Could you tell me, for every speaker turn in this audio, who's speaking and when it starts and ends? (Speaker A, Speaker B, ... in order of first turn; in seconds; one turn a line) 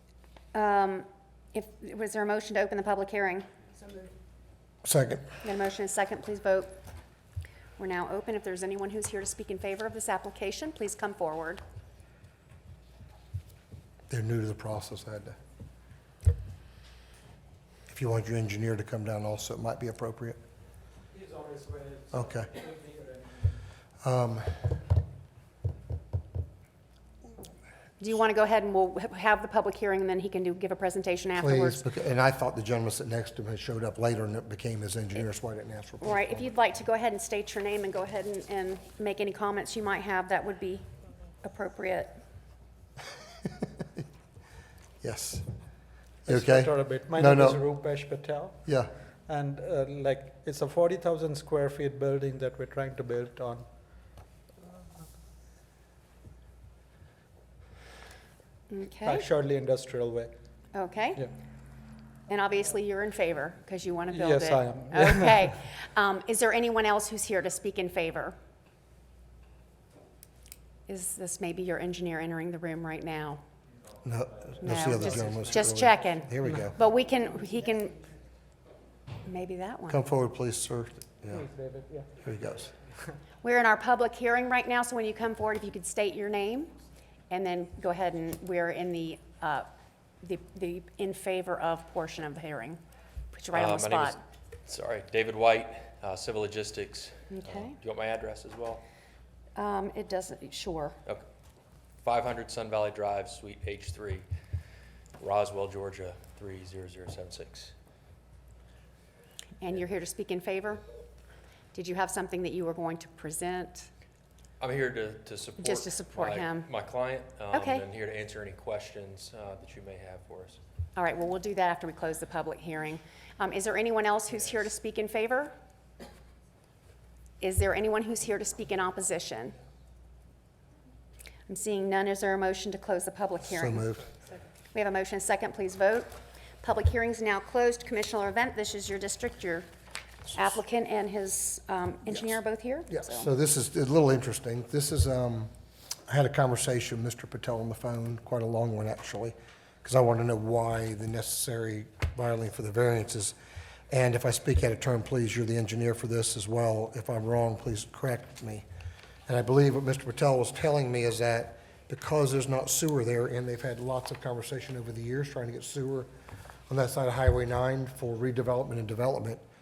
Speaker A: 0.5-3.5
Speaker B: 4.8-5.2
Speaker A: 5.4-6.8
Speaker A: 7.8-11.6
Speaker B: 14.1-15.4
Speaker B: 17.9-20.4
Speaker C: 21.1-23.2
Speaker B: 22.1-22.5
Speaker B: 24.0-24.8
Speaker A: 28.0-31.9
Speaker B: 31.4-36.5
Speaker A: 36.0-40.9
Speaker A: 41.4-42.2
Speaker B: 45.0-45.5
Speaker B: 46.3-47.6
Speaker C: 46.3-48.7
Speaker C: 49.3-53.7
Speaker A: 58.7-59.3
Speaker C: 59.0-60.3
Speaker A: 60.7-61.2
Speaker A: 62.3-68.4
Speaker C: 64.1-65.5
Speaker A: 70.9-73.4
Speaker B: 74.0-76.8
Speaker A: 74.6-78.0
Speaker A: 79.3-80.0
Speaker B: 79.9-81.5
Speaker B: 82.2-82.7
Speaker A: 83.4-86.7
Speaker A: 87.3-89.7
Speaker A: 90.2-92.8
Speaker A: 93.3-94.2
Speaker D: 93.5-98.8
Speaker A: 97.3-97.8
Speaker A: 99.6-101.0
Speaker D: 102.0-104.3
Speaker D: 105.2-107.7
Speaker A: 109.6-110.8
Speaker A: 111.7-113.9
Speaker D: 114.6-120.6
Speaker A: 115.6-116.7
Speaker A: 117.5-117.8
Speaker A: 121.0-125.5
Speaker A: 127.4-129.6
Speaker A: 131.5-133.9
Speaker B: 133.5-134.1
Speaker A: 134.7-139.7
Speaker A: 140.3-143.3
Speaker B: 142.9-145.5
Speaker B: 146.1-153.4
Speaker B: 153.9-158.7
Speaker B: 159.3-166.1
Speaker B: 166.7-169.4